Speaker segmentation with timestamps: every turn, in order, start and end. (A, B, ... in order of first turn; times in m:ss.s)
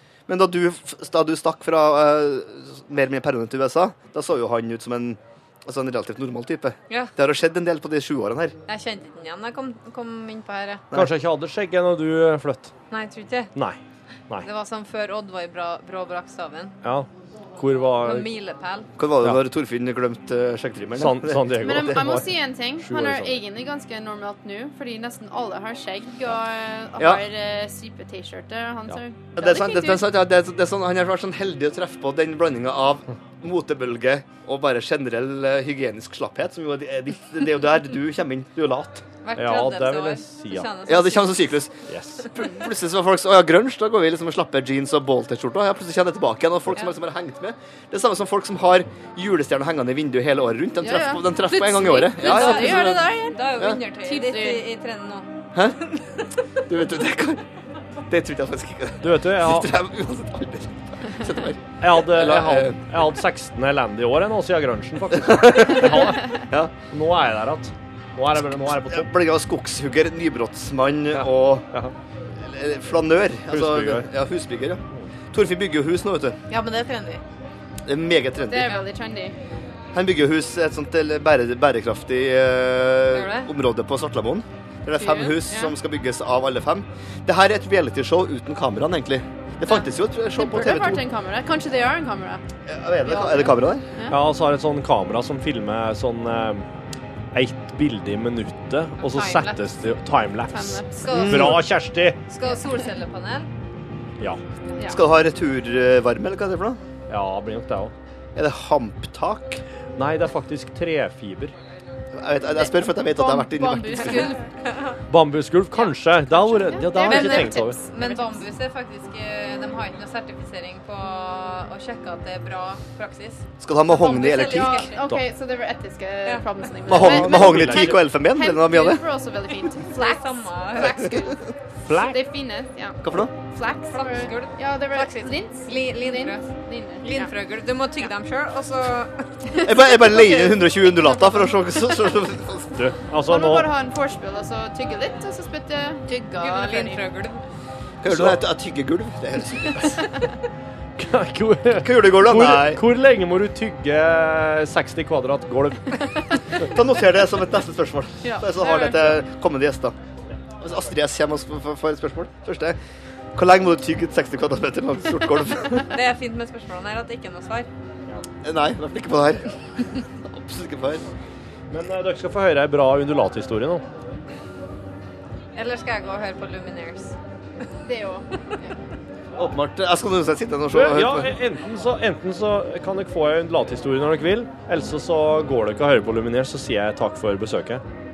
0:00.3-0:08.5 A
0:08.7-0:10.8 B
0:10.9-0:12.7 C
0:12.9-0:13.5 B
0:14.4-0:16.7 B
0:16.8-0:18.3 C
0:17.9-0:18.9 B
0:19.0-0:22.0 A
0:21.0-0:23.4 C
0:21.5-0:30.1 D
0:27.0-0:27.2 A
0:29.4-0:39.0 A
0:39.2-0:41.4 B
0:39.3-0:40.7 C
0:40.9-0:53.8 A
0:41.9-0:42.3 C
0:50.8-0:54.6 D
0:52.0-0:55.3 B
0:55.5-0:55.8 A
0:55.9-0:56.2 B
0:56.7-0:57.4 A
0:58.1-1:02.9 A
0:59.0-0:59.7 C
1:01.8-1:09.1 C
1:05.2-1:06.7 A
1:08.7-1:11.7 A
1:11.1-1:11.9 C
1:12.4-1:14.8 A
1:13.5-1:14.1 C
1:15.3-1:16.4 A
1:16.5-1:17.2 B
1:17.8-1:18.7 A
1:18.3-1:19.4 D
1:19.9-1:31.0 A
1:23.1-1:23.5 B
1:25.0-1:25.7 D
1:30.3-1:32.4 D
1:32.6-1:33.8 A
1:33.0-1:34.2 D
1:34.1-1:36.6 C
1:37.3-1:42.2 C
1:39.0-1:39.7 B
1:40.5-1:41.0 D
1:41.0-1:41.6 B
1:41.1-1:41.6 A
1:42.3-1:43.5 B
1:44.9-1:46.8 A
1:47.1-1:47.9 C
1:48.3-1:49.6 A
1:50.0-1:51.5 C
1:52.1-1:54.4 A
1:52.5-1:54.5 D
1:54.2-1:55.0 B
1:55.1-1:57.8 C
1:55.7-1:58.4 D
1:57.0-2:05.0 B
2:03.6-2:04.9 A
2:03.9-2:17.3 D
2:06.8-2:09.0 A
2:06.9-2:08.0 C
2:09.8-2:11.1 B
2:11.9-2:12.2 C
2:13.0-2:13.3 A
2:13.9-2:16.5 B
2:17.0-2:19.4 B
2:19.6-2:21.5 D
2:19.6-2:22.9 A
2:22.9-2:23.7 C
2:23.2-2:27.0 D
2:26.1-2:27.4 B
2:28.0-2:29.9 A
2:28.1-2:28.4 C
2:31.0-2:36.4 C
2:31.8-2:32.8 A
2:36.7-2:40.0 A
2:38.2-2:39.1 D
2:40.6-2:42.8 A
2:43.3-2:45.9 A
2:45.8-2:47.7 B
2:48.4-2:51.1 A
2:51.7-2:53.8 C
2:55.5-2:57.1 B
2:57.8-2:58.8 D
2:59.4-3:01.3 A
3:00.7-3:07.8 C